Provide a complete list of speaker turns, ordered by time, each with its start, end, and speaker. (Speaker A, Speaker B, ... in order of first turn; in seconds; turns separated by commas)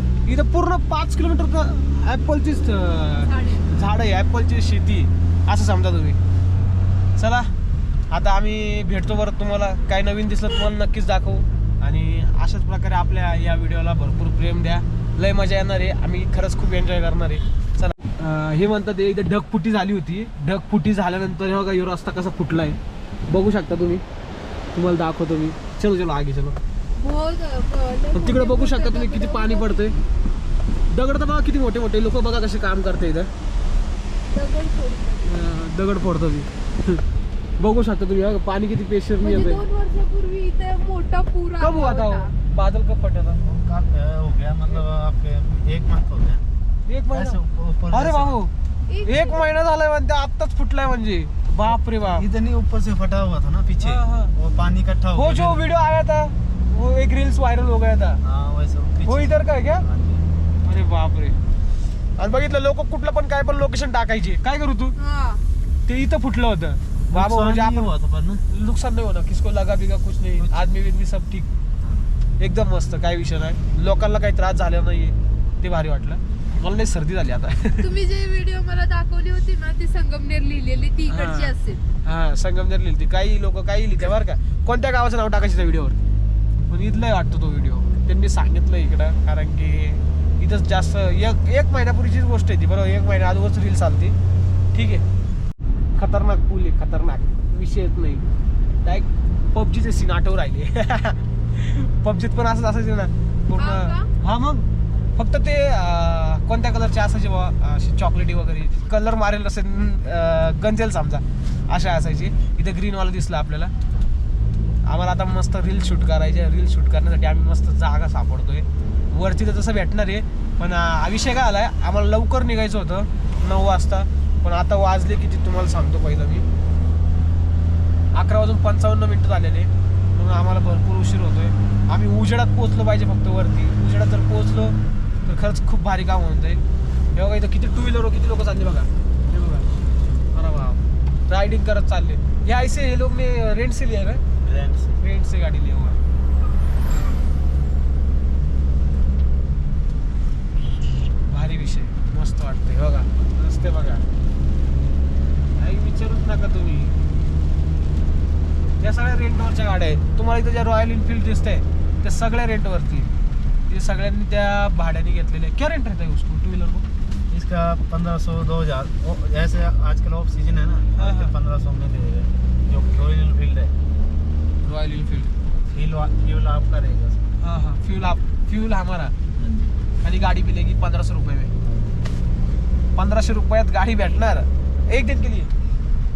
Speaker A: 0.2-6.2, Speaker B: 3.3-3.7, Speaker A: 7.2-7.5, Speaker A: 8.1-22.8, Speaker A: 23.3-24.0, Speaker A: 24.7-26.6, Speaker B: 27.0-29.9, Speaker A: 28.1-29.9, Speaker A: 30.9-33.3, Speaker B: 34.3-35.4, Speaker A: 35.2-37.0, Speaker A: 37.6-39.6, Speaker B: 39.2-42.3, Speaker A: 41.6-43.4, Speaker C: 43.4-46.4, Speaker A: 46.9-47.4, Speaker C: 47.1-48.3, Speaker A: 47.9-48.5, Speaker B: 48.9-49.5, Speaker A: 49.0-52.3, Speaker C: 51.7-55.6, Speaker A: 53.8-54.3, Speaker A: 55.1-58.2, Speaker C: 58.2-60.2, Speaker A: 59.0-59.8, Speaker A: 60.6-61.4, Speaker A: 62.2-64.9, Speaker B: 65.0-65.4, Speaker A: 65.9-67.9, Speaker C: 67.1-68.4, Speaker A: 68.5-71.5, Speaker C: 70.3-70.7, Speaker C: 71.8-72.1, Speaker A: 72.4-77.9, Speaker B: 77.8-81.8, Speaker A: 81.1-86.0, Speaker A: 86.7-94.1, Speaker A: 94.7-95.0, Speaker A: 96.0-98.2, Speaker A: 98.8-113.7, Speaker B: 103.5-104.1, Speaker A: 114.8-126.5, Speaker A: 128.1-136.6, Speaker A: 137.1-139.7, Speaker A: 140.3-144.2, Speaker C: 144.4-145.0, Speaker A: 145.0-146.0, Speaker A: 151.3-154.1, Speaker A: 155.6-156.9, Speaker A: 158.8-163.1, Speaker A: 163.7-166.8, Speaker C: 167.3-173.7, Speaker A: 170.9-171.3, Speaker A: 174.6-175.3, Speaker C: 175.7-177.3, Speaker A: 177.4-179.1, Speaker C: 179.4-179.8, Speaker A: 180.0-181.5, Speaker C: 181.6-181.9, Speaker A: 182.9-185.5